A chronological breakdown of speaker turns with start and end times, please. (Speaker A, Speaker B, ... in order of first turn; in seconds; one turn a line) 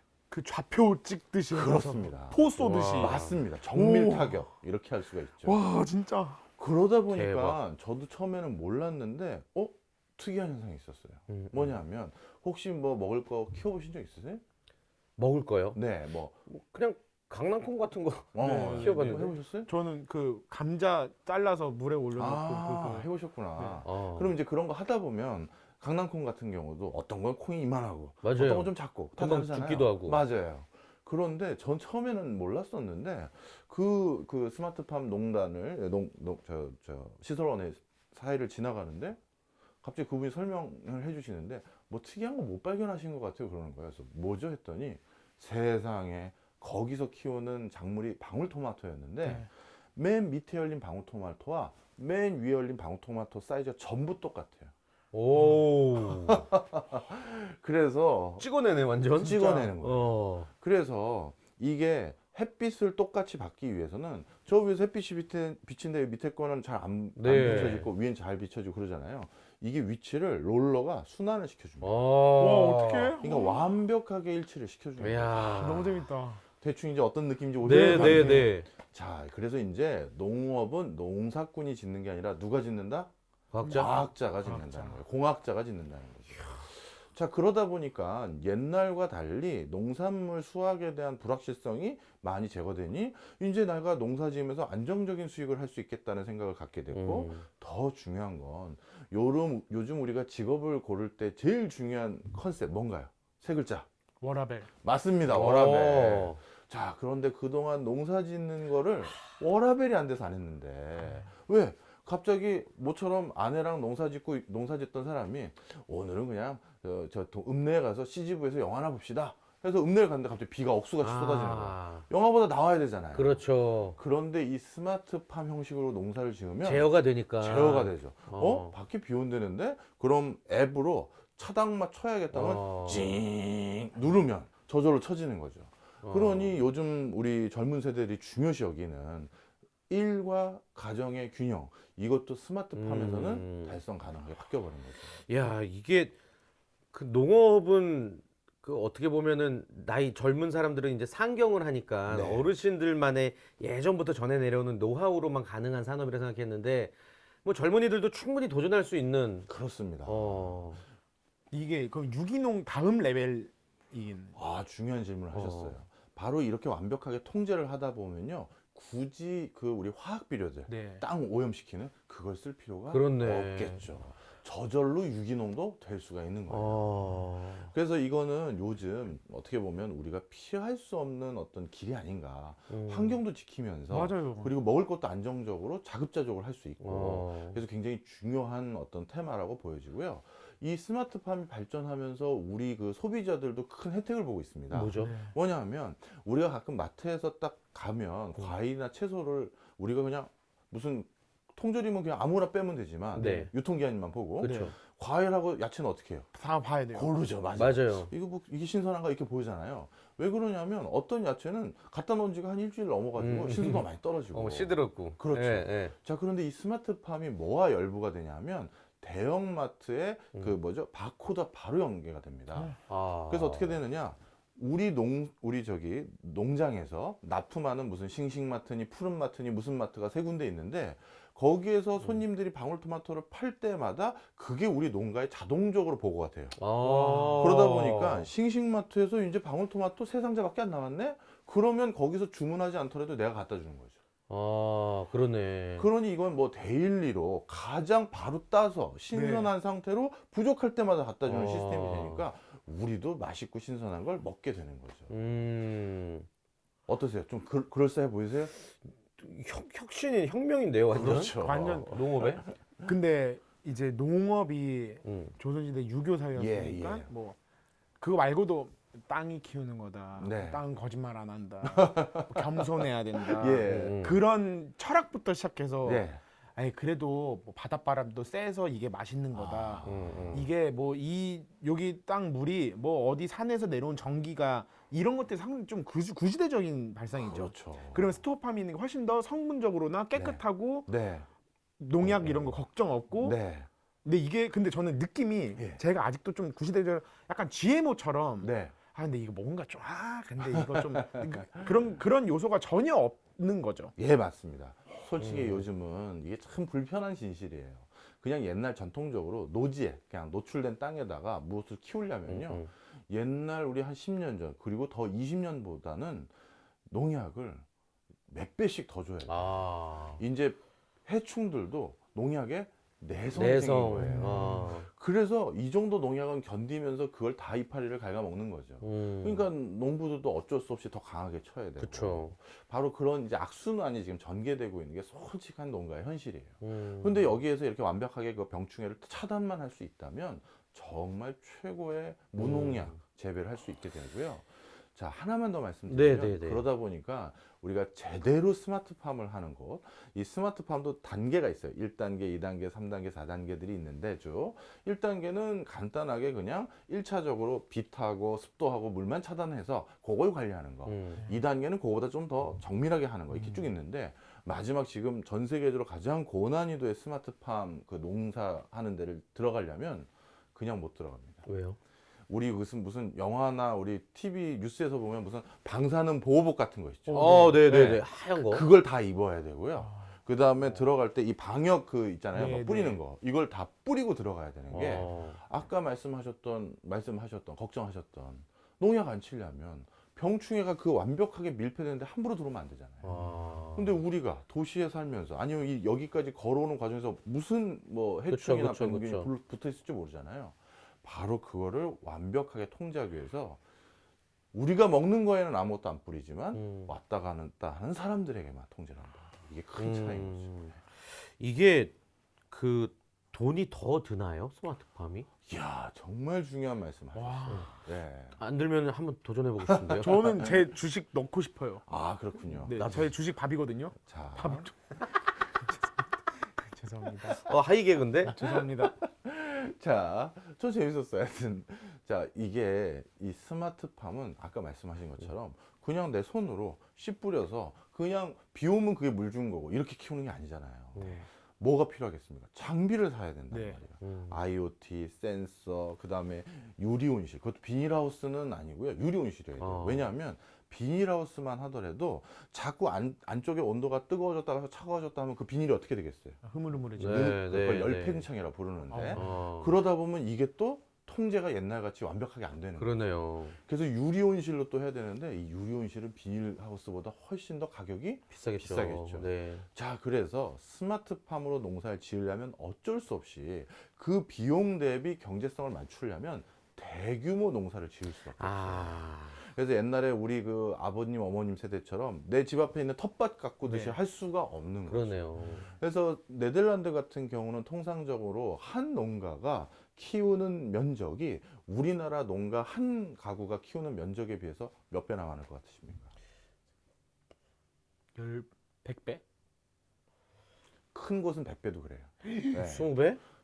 Speaker A: 0.3-4.5
Speaker B: 1.5-5.6
Speaker C: 2.6-3.4
Speaker A: 5.4-6.4
Speaker B: 6.6-14.4
Speaker C: 7.1-7.6
Speaker C: 11.3-11.8
Speaker C: 15.2-15.8
Speaker B: 15.7-16.4
Speaker C: 16.5-19.4
Speaker B: 18.3-19.7
Speaker A: 18.4-23.8
Speaker B: 22.1-39.2
Speaker C: 23.8-24.4
Speaker C: 28.2-30.2
Speaker B: 39.8-54.7
Speaker C: 55.1-56.5
Speaker A: 55.4-55.6
Speaker B: 56.0-58.5
Speaker C: 58.4-60.5
Speaker B: 59.1-72.0
Speaker C: 67.2-67.9
Speaker A: 67.5-67.7
Speaker C: 71.8-73.2
Speaker A: 72.4-73.7
Speaker B: 73.2-75.8
Speaker C: 75.0-76.1
Speaker A: 75.5-76.4
Speaker B: 76.6-83.1
Speaker C: 77.6-78.7
Speaker A: 77.6-78.5
Speaker C: 83.5-84.0
Speaker A: 83.6-85.0
Speaker B: 83.7-103.9
Speaker C: 96.9-97.5
Speaker A: 104.2-104.7
Speaker B: 104.8-139.3
Speaker C: 105.3-106.4
Speaker C: 121.0-122.1
Speaker C: 123.1-124.0
Speaker C: 126.6-128.7
Speaker C: 132.3-133.2
Speaker C: 136.0-136.6
Speaker B: 139.9-145.2
Speaker C: 142.8-143.8
Speaker C: 145.3-146.1
Speaker C: 146.9-159.5
Speaker B: 152.1-152.5
Speaker B: 159.5-160.8
Speaker C: 160.1-160.8
Speaker A: 161.5-164.3
Speaker B: 164.3-176.9
Speaker C: 165.3-165.8
Speaker A: 170.7-171.1
Speaker C: 172.9-173.8
Speaker C: 176.5-177.7
Speaker B: 177.7-206.3
Speaker C: 182.7-183.2
Speaker A: 183.9-184.6
Speaker C: 186.8-187.6
Speaker C: 194.7-195.1
Speaker A: 195.0-195.3
Speaker C: 203.1-203.5
Speaker C: 204.4-204.7
Speaker A: 204.4-204.7
Speaker A: 206.3-207.1
Speaker B: 206.9-222.8
Speaker C: 207.6-208.1
Speaker C: 213.2-215.9
Speaker C: 222.9-223.8
Speaker B: 223.3-236.6
Speaker C: 236.6-238.3
Speaker A: 236.8-237.5
Speaker B: 237.3-244.0
Speaker C: 244.3-245.9
Speaker B: 245.8-255.1
Speaker A: 249.1-249.5
Speaker C: 251.2-252.2
Speaker C: 255.1-256.3
Speaker B: 256.9-258.5
Speaker C: 259.2-262.4
Speaker B: 260.9-262.5
Speaker A: 261.4-262.0
Speaker A: 262.8-267.4
Speaker C: 265.1-265.4
Speaker B: 266.3-267.1
Speaker A: 268.0-290.9
Speaker B: 270.2-270.6
Speaker B: 271.6-272.6
Speaker B: 273.2-274.0
Speaker C: 273.6-274.2
Speaker B: 275.8-276.2
Speaker B: 279.3-280.5
Speaker C: 279.8-280.5
Speaker B: 287.2-288.2
Speaker B: 290.1-291.3
Speaker A: 291.8-293.4
Speaker B: 292.0-292.6
Speaker B: 293.2-293.7
Speaker A: 294.0-303.9
Speaker B: 298.4-298.7
Speaker B: 300.4-301.9
Speaker B: 304.0-316.3
Speaker C: 305.2-305.7
Speaker C: 312.3-312.7
Speaker B: 316.9-317.6
Speaker B: 318.3-319.6
Speaker C: 319.2-320.2
Speaker B: 320.2-371.4
Speaker C: 323.3-324.9
Speaker A: 323.9-324.7
Speaker C: 328.8-329.4
Speaker C: 331.8-332.3
Speaker C: 336.6-337.2
Speaker C: 342.4-343.0
Speaker C: 345.9-346.6
Speaker C: 360.9-361.3
Speaker A: 363.3-363.6
Speaker C: 371.4-371.8
Speaker B: 372.3-403.6
Speaker A: 377.1-377.6
Speaker C: 377.1-378.7
Speaker A: 379.8-380.1
Speaker A: 382.3-383.0
Speaker C: 384.7-385.4
Speaker C: 393.0-394.0
Speaker C: 398.3-399.3
Speaker B: 404.5-410.8
Speaker C: 406.5-406.9
Speaker C: 409.8-411.9
Speaker C: 412.5-415.3
Speaker B: 415.4-418.4
Speaker A: 417.1-417.7
Speaker C: 418.4-420.2
Speaker B: 419.6-420.6
Speaker A: 420.0-421.8
Speaker B: 421.9-423.0
Speaker A: 422.6-425.1
Speaker C: 422.7-423.1
Speaker B: 424.0-424.7
Speaker A: 426.6-427.4
Speaker C: 427.4-428.4
Speaker A: 428.2-428.9
Speaker B: 428.2-456.4
Speaker C: 440.9-441.2
Speaker A: 443.5-443.8
Speaker C: 444.0-444.4
Speaker C: 449.6-450.1
Speaker A: 456.4-457.4
Speaker B: 457.0-463.0
Speaker C: 457.0-458.2
Speaker A: 458.9-459.3
Speaker C: 459.1-459.7
Speaker C: 462.8-463.6
Speaker B: 463.5-496.1
Speaker C: 468.3-469.7
Speaker C: 478.4-479.4
Speaker A: 483.6-484.0
Speaker C: 484.9-485.7
Speaker A: 498.1-499.2
Speaker B: 500.9-502.9
Speaker A: 502.2-502.6
Speaker C: 502.6-503.2